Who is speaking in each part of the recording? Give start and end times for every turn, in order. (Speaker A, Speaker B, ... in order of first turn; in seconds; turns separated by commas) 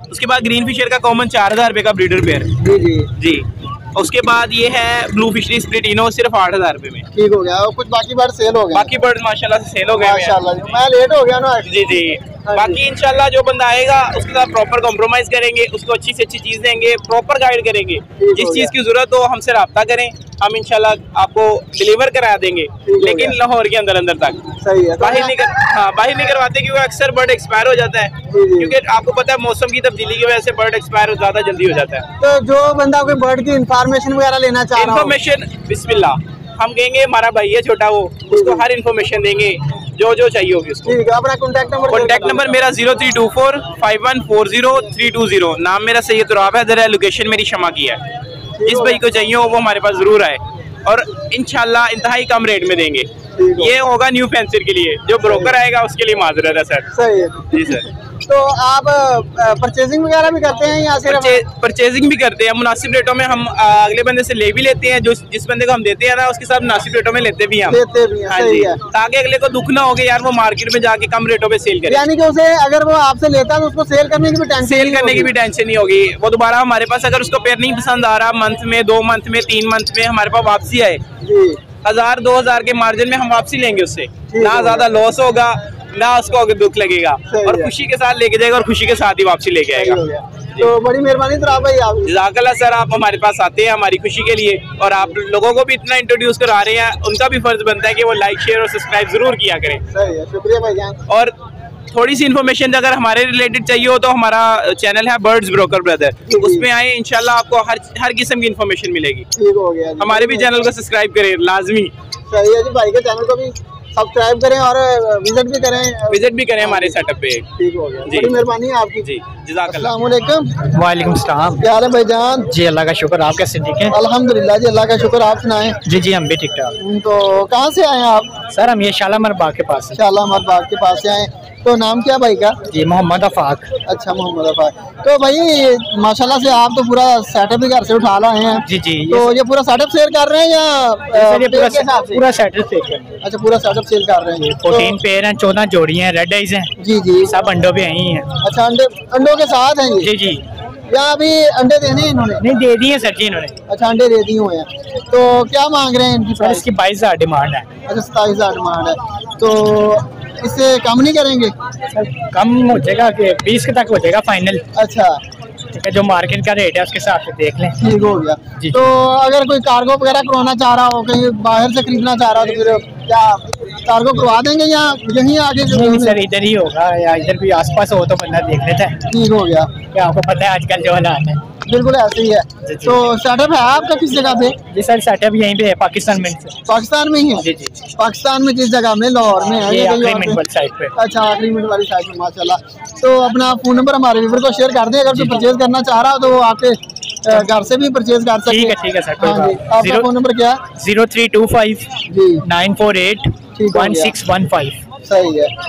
Speaker A: 0.1-2.5, Speaker B: 2.6-3.1, Speaker A: 3.2-7.0, Speaker B: 7.1-8.9, Speaker A: 8.7-10.8, Speaker B: 9.9-12.0, Speaker A: 11.6-32.1, Speaker B: 12.5-12.8, Speaker B: 18.2-18.7, Speaker B: 22.9-23.4, Speaker B: 24.6-25.3, Speaker B: 28.3-28.8, Speaker B: 32.2-35.1, Speaker A: 34.8-41.0, Speaker B: 38.3-38.7, Speaker B: 40.9-42.6, Speaker A: 41.9-48.0, Speaker B: 48.6-49.0, Speaker A: 48.6-56.9, Speaker B: 53.4-53.8, Speaker B: 55.2-55.6, Speaker B: 56.9-57.6, Speaker A: 57.5-57.9, Speaker B: 58.3-61.4, Speaker A: 61.0-72.1, Speaker B: 67.7-68.8, Speaker B: 71.9-75.3, Speaker A: 74.6-81.0, Speaker B: 81.2-81.6, Speaker A: 81.8-90.0, Speaker B: 84.3-84.9, Speaker B: 87.3-87.7, Speaker B: 89.7-92.1, Speaker A: 92.0-99.8, Speaker B: 99.9-101.0, Speaker A: 101.1-101.3, Speaker A: 101.9-109.3, Speaker B: 106.3-106.7, Speaker B: 109.4-110.5, Speaker A: 110.0-111.9, Speaker B: 112.3-117.0, Speaker A: 116.1-117.5, Speaker B: 117.6-119.1, Speaker A: 118.0-118.4, Speaker A: 119.0-119.9, Speaker B: 119.7-120.5, Speaker C: 120.7-121.7, Speaker B: 121.6-122.5, Speaker C: 122.5-124.0, Speaker B: 123.9-125.8, Speaker C: 125.8-126.8, Speaker B: 126.8-128.3, Speaker C: 128.5-130.0, Speaker B: 129.9-132.6, Speaker C: 132.7-133.7, Speaker B: 133.8-142.2, Speaker C: 138.7-139.3, Speaker C: 141.1-143.1, Speaker B: 143.2-145.0, Speaker C: 144.5-146.7, Speaker B: 146.8-147.3, Speaker C: 147.2-148.3, Speaker B: 148.4-150.1, Speaker C: 150.0-150.4, Speaker B: 150.9-152.4, Speaker C: 152.4-153.6, Speaker B: 153.7-156.7, Speaker C: 156.4-157.7, Speaker B: 157.9-161.5, Speaker C: 161.9-164.7, Speaker B: 164.8-165.2, Speaker C: 165.8-167.8, Speaker B: 167.8-176.2, Speaker C: 168.6-168.9, Speaker C: 175.7-179.0, Speaker B: 179.1-179.7, Speaker C: 179.9-181.4, Speaker B: 181.7-184.6, Speaker C: 182.6-183.0, Speaker C: 184.7-186.6, Speaker B: 186.7-187.5, Speaker C: 187.4-187.8, Speaker B: 188.0-190.4, Speaker C: 189.6-191.0, Speaker B: 191.0-200.6, Speaker C: 195.1-195.5, Speaker C: 198.5-200.1, Speaker C: 200.7-201.9, Speaker B: 202.1-202.4, Speaker C: 202.4-204.8, Speaker B: 203.6-204.1, Speaker B: 205.0-205.5